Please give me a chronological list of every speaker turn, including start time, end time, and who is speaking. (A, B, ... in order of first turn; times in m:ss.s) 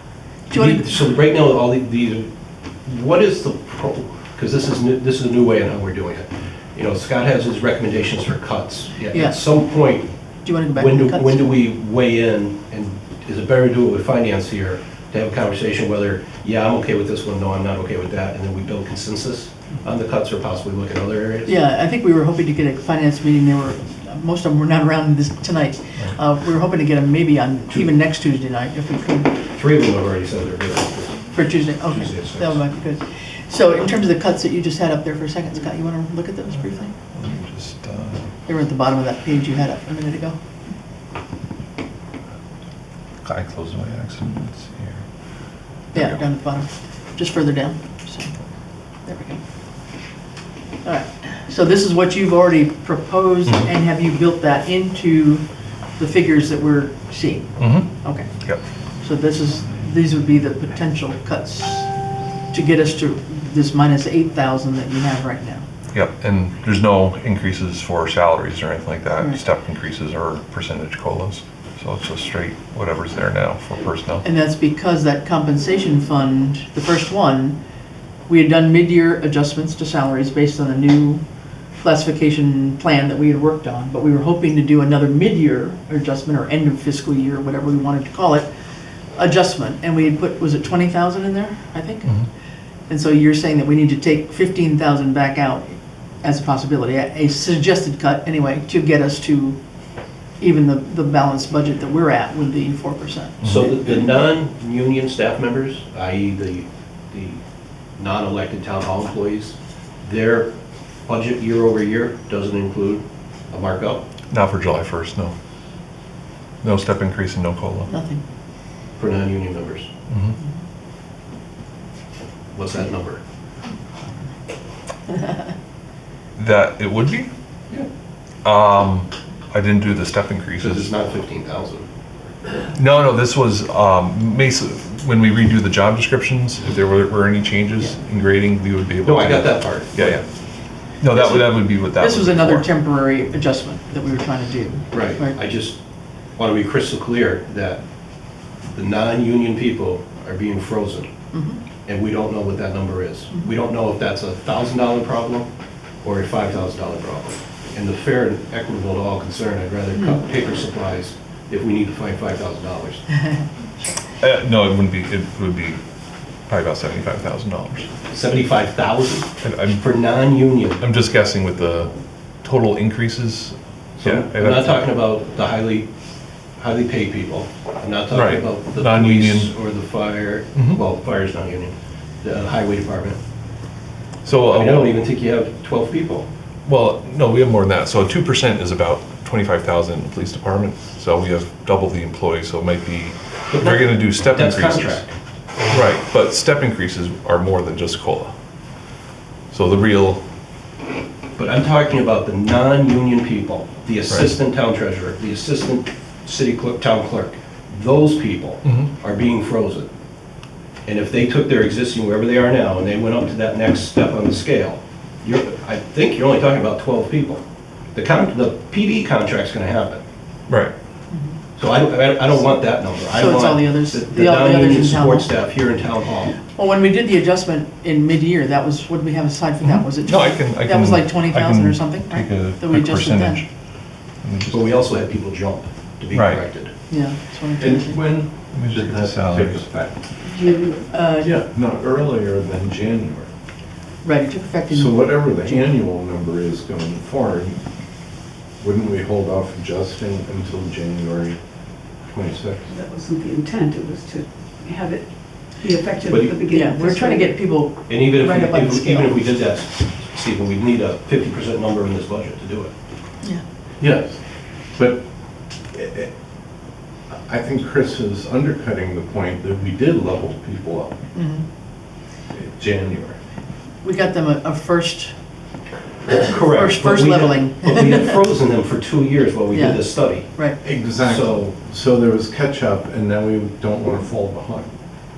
0:00.5-0:02.3 A
0:00.5-0:00.9 B
0:02.9-0:10.1 A
0:09.1-0:09.4 B
0:10.4-0:11.4 B
0:10.8-0:21.6 A
0:21.5-0:29.3 B
0:29.5-0:32.6 A
0:31.3-0:37.0 B
0:37.1-0:38.3 C
0:38.5-0:40.4 B
0:43.2-0:45.0 C
0:45.9-0:48.3 B
0:46.0-0:46.2 C
0:49.1-0:49.4 B
0:50.8-0:55.4 B
0:56.0-0:58.3 B
0:57.6-0:58.6 C
0:59.0-1:01.9 B
1:02.5-1:05.7 B
1:05.9-1:14.2 C
1:14.2-1:17.6 B
1:18.3-1:21.2 B
1:21.8-1:28.5 B
1:29.2-1:32.2 B
1:32.9-1:39.6 B
1:40.4-1:44.1 B
1:43.4-1:47.4 A
1:48.0-1:50.5 A
1:51.1-1:54.0 A
1:54.3-1:55.3 C
1:56.6-1:57.9 C
1:57.9-1:58.2 B
1:59.0-1:59.9 A
2:00.1-2:00.4 C
2:02.5-2:03.2 A
2:06.4-2:07.3 C
2:08.4-2:10.9 C
2:10.6-2:11.9 A
2:12.7-2:20.2 C
2:19.0-2:20.2 A
2:21.0-2:22.7 C
2:21.2-2:25.4 B
2:24.9-2:25.8 A
2:26.4-2:27.8 A
2:28.7-2:31.1 A
2:31.3-2:31.6 B
2:31.8-2:35.5 A
2:36.0-2:43.0 A
2:44.2-2:45.8 C
2:46.5-2:47.9 C
2:48.1-2:49.3 A
2:49.4-2:50.2 C
2:49.8-2:50.8 A
2:50.8-2:54.9 C
2:54.0-2:55.9 A
2:56.6-3:03.2 A
2:58.1-2:59.5 C
3:00.6-3:00.8 C
3:04.2-3:05.0 C
3:04.5-3:06.3 A
3:06.7-3:15.0 C
3:13.5-3:15.1 A
3:15.7-3:18.3 C
3:19.5-3:20.2 C
3:21.4-3:29.9 A
3:30.9-3:37.4 A
3:38.0-3:40.0 A
3:40.5-3:40.7 C
3:41.6-3:46.4 A
3:43.1-3:45.3 B
3:46.6-3:53.4 B
3:49.6-3:53.5 C
3:54.2-3:54.8 C
3:54.5-3:56.7 A
3:56.1-3:56.4 C
3:56.9-3:58.0 B
3:57.6-4:00.0 D
3:58.5-3:59.7 C
4:00.3-4:00.9 E
4:00.9-4:01.3 B
4:01.2-4:03.3 D
4:04.0-4:05.6 B
4:04.7-4:07.6 D
4:08.6-4:11.4 D
4:12.1-4:12.6 D
4:12.2-4:12.4 A
4:12.6-4:17.4 E
4:16.1-4:16.3 A
4:16.5-4:19.2 B
4:17.9-4:22.7 A
4:23.8-4:24.2 D
4:24.8-4:25.0 D
4:25.7-4:26.1 D
4:27.3-4:30.9 D
4:31.2-4:31.4 B
4:32.3-4:33.2 D
4:33.8-4:35.1 B
4:36.1-4:40.4 A
4:36.5-4:38.1 B
4:39.5-4:40.6 B
4:40.6-4:44.7 D
4:41.0-4:41.5 A